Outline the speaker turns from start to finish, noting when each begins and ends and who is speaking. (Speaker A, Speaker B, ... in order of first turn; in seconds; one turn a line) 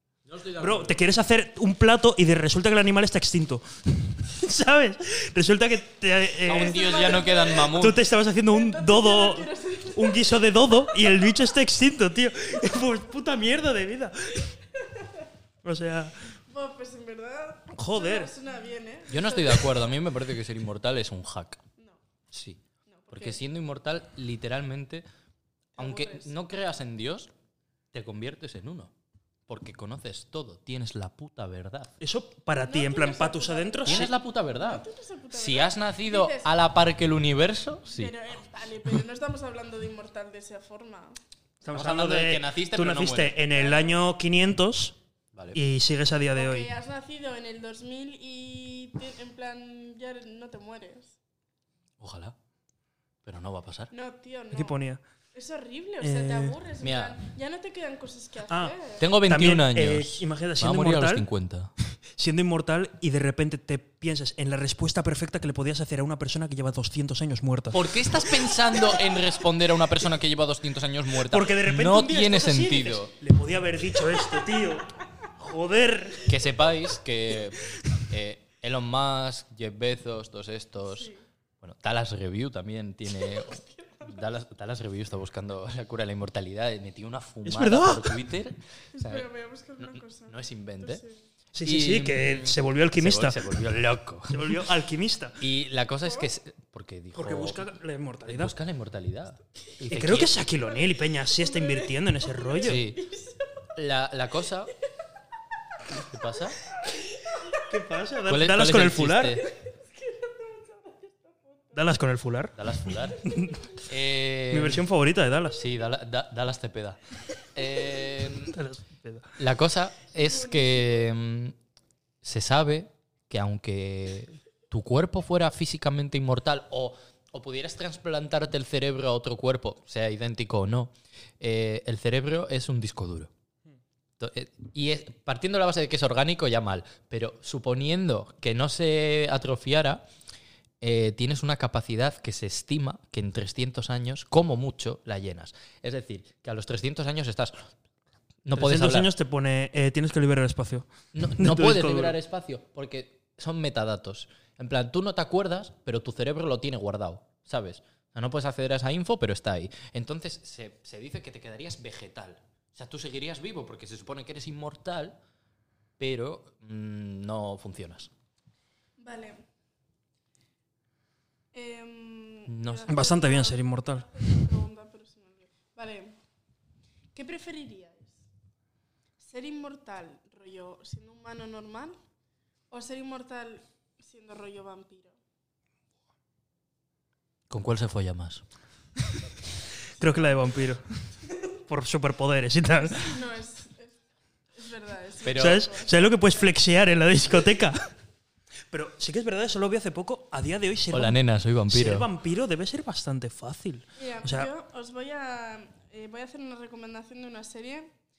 Speaker A: 0.2-1.0
Speaker B: 0.6-6.9
Speaker A: 6.4-8.0
Speaker C: 6.5-7.9
Speaker B: 7.7-14.5
Speaker C: 8.4-11.1
Speaker C: 14.7-15.3
Speaker B: 15.6-16.3
Speaker C: 16.5-19.9
Speaker B: 17.7-18.3
Speaker A: 19.1-21.6
Speaker A: 22.3-25.1
Speaker C: 22.9-23.4
Speaker C: 25.8-26.3
Speaker A: 25.8-27.3
Speaker A: 27.9-28.9
Speaker A: 29.5-31.9
Speaker B: 32.0-34.1
Speaker C: 32.6-36.5
Speaker A: 33.9-38.1
Speaker C: 37.9-41.2
Speaker B: 41.6-45.0
Speaker A: 41.7-43.4
Speaker C: 43.5-44.0
Speaker A: 45.3-45.6
Speaker B: 45.5-46.7
Speaker C: 46.3-51.1
Speaker A: 52.0-52.4
Speaker A: 53.2-53.9
Speaker C: 53.9-54.8
Speaker B: 54.5-55.0
Speaker C: 55.3-59.1
Speaker B: 56.0-56.5
Speaker A: 56.8-57.2
Speaker B: 58.5-61.2
Speaker A: 59.0-61.7
Speaker B: 62.2-67.9
Speaker A: 67.7-73.1
Speaker B: 71.3-76.3
Speaker A: 76.2-91.0
Speaker C: 80.8-81.2
Speaker C: 83.2-84.2
Speaker B: 87.4-88.2
Speaker C: 88.9-91.2
Speaker B: 91.5-93.5
Speaker A: 91.6-94.6
Speaker B: 94.3-95.4
Speaker A: 95.4-97.7
Speaker B: 97.1-98.5
Speaker A: 98.2-100.3
Speaker B: 99.9-102.8
Speaker C: 100.6-103.7
Speaker A: 102.6-103.0
Speaker A: 103.7-104.7
Speaker A: 105.9-106.6
Speaker C: 107.2-107.6
Speaker B: 107.6-109.4
Speaker A: 108.3-109.5
Speaker C: 109.4-111.8
Speaker B: 111.7-112.6
Speaker A: 112.5-114.8
Speaker B: 113.2-113.6
Speaker B: 114.5-115.6
Speaker A: 115.5-118.5
Speaker B: 118.4-119.4
Speaker A: 119.4-121.5
Speaker C: 120.2-121.0
Speaker A: 122.2-133.3
Speaker A: 134.2-140.0
Speaker A: 140.8-147.7
Speaker A: 148.4-149.1
Speaker B: 148.5-152.1
Speaker A: 151.1-165.2
Speaker A: 166.0-168.1
Speaker C: 169.0-169.4
Speaker C: 171.5-176.2
Speaker A: 172.5-172.9
Speaker B: 172.9-174.1
Speaker C: 177.1-178.2
Speaker C: 179.2-182.0
Speaker C: 182.7-185.2
Speaker A: 187.5-188.4
Speaker B: 190.0-190.8
Speaker B: 191.5-193.2
Speaker C: 192.9-194.0
Speaker C: 194.5-196.5
Speaker A: 195.2-195.7
Speaker B: 195.3-197.9
Speaker B: 198.7-204.5
Speaker A: 200.9-202.1
Speaker C: 203.9-207.9